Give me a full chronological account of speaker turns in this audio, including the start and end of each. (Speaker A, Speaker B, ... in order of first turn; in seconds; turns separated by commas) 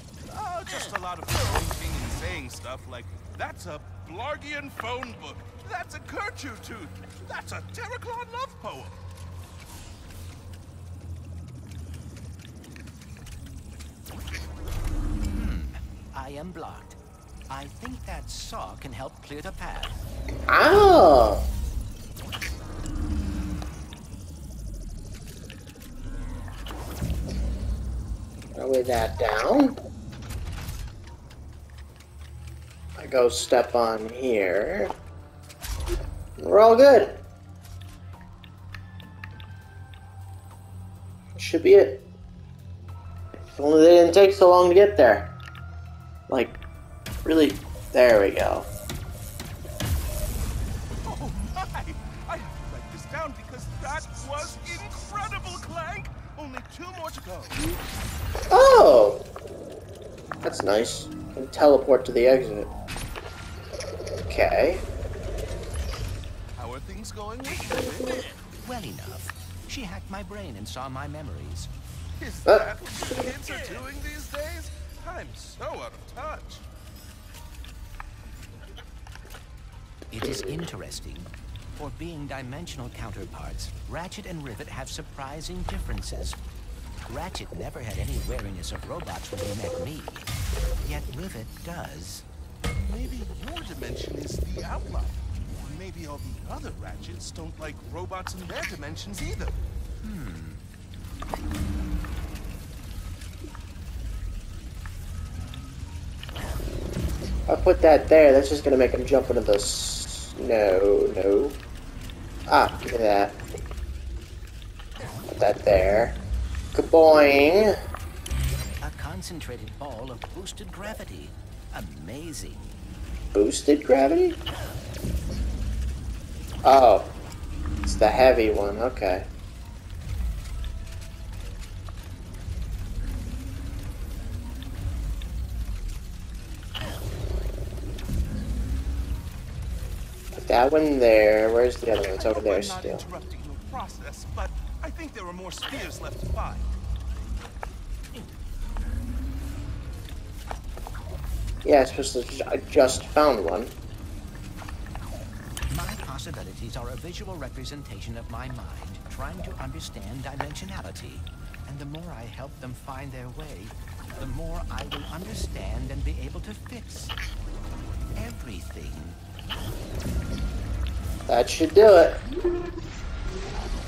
Speaker A: 0.3-9.0, Speaker B: 15.3-17.0, Speaker B: 17.5-20.0, Speaker C: 20.5-21.4, Speaker C: 28.6-29.8, Speaker C: 33.0-34.9, Speaker C: 36.4-37.2, Speaker C: 41.4-42.0, Speaker C: 43.5-45.3, Speaker C: 46.3-46.6, Speaker C: 47.2-48.7, Speaker A: 51.0-57.6, Speaker C: 58.5-59.2, Speaker C: 60.4-62.7, Speaker C: 64.3-64.8, Speaker A: 66.6-68.3, Speaker B: 68.6-71.7, Speaker A: 72.2-76.6, Speaker C: 72.5-72.7, Speaker B: 80.1-86.4, Speaker C: 80.2-80.5, Speaker B: 87.1-90.3, Speaker B: 90.8-92.3, Speaker A: 92.7-99.6, Speaker B: 100.0-100.6, Speaker C: 107.5-111.6, Speaker C: 112.5-113.4, Speaker C: 115.3-116.2, Speaker C: 116.7-117.7, Speaker B: 118.8-122.7, Speaker C: 123.3-124.4, Speaker C: 126.6-127.1, Speaker C: 127.8-129.2, Speaker C: 140.4-143.1, Speaker A: 142.0-146.7, Speaker C: 151.6-153.7, Speaker B: 155.7-167.1, Speaker B: 168.2-169.2, Speaker C: 171.3-172.2